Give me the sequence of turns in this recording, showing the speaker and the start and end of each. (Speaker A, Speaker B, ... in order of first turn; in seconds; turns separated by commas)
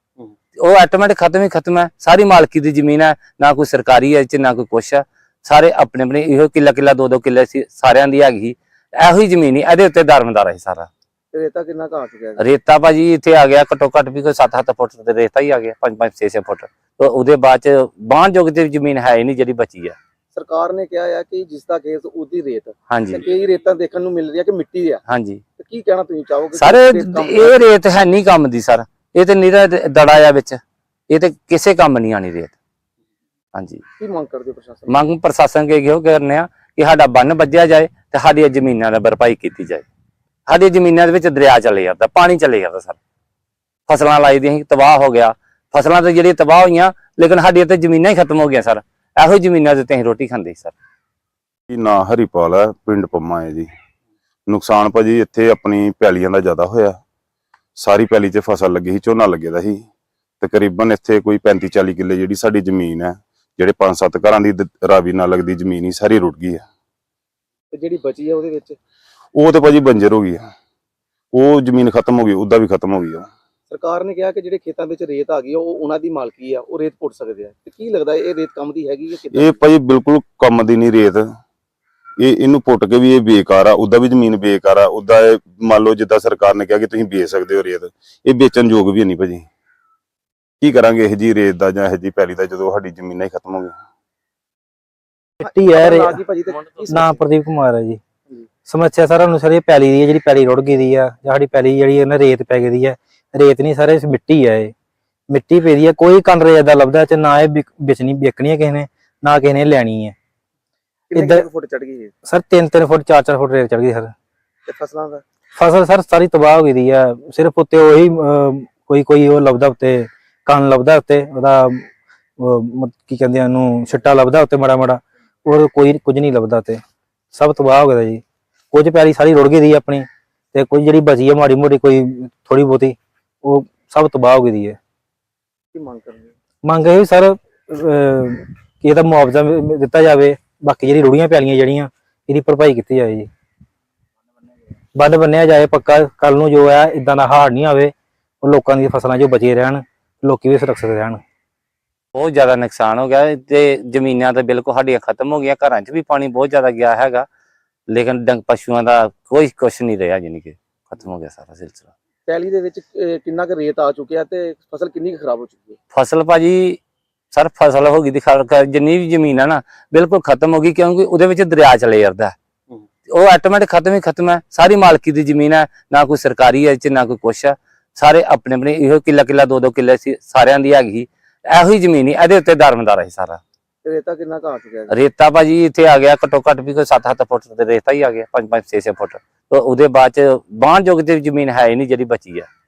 Speaker A: 0.6-10.9, Speaker B: 11.3-12.4, Speaker A: 12.4-20.0, Speaker B: 20.3-25.0, Speaker A: 22.9-23.2, Speaker A: 25.1-25.4, Speaker B: 25.6-27.5, Speaker A: 26.5-32.5, Speaker A: 33.5-33.8, Speaker B: 34.0-35.0, Speaker A: 34.9-39.9, Speaker A: 40.5-43.0, Speaker A: 43.9-50.7, Speaker C: 51.7-53.7, Speaker C: 54.5-57.0, Speaker C: 57.8-59.8, Speaker C: 60.4-66.6, Speaker B: 67.7-68.8, Speaker C: 69.3-70.4, Speaker C: 71.3-73.3, Speaker B: 73.7-79.6, Speaker C: 79.3-81.3, Speaker C: 82.2-89.5, Speaker C: 90.6-93.7, Speaker D: 95.4-96.2, Speaker B: 95.4-97.2, Speaker D: 96.9-98.0, Speaker D: 98.7-104.7, Speaker D: 105.3-110.2, Speaker B: 111.1-112.1, Speaker D: 111.1-111.5, Speaker D: 112.2-114.1, Speaker B: 114.7-115.2, Speaker D: 115.5-121.9, Speaker D: 122.4-126.8, Speaker D: 127.3-134.8, Speaker B: 135.7-136.3, Speaker D: 136.6-143.3, Speaker D: 144.9-151.2, Speaker A: 152.1-157.2, Speaker A: 157.9-161.8, Speaker B: 162.3-165.8, Speaker A: 165.9-166.8, Speaker A: 167.3-172.3, Speaker A: 173.1-183.4, Speaker B: 183.8-184.9, Speaker A: 184.9-192.5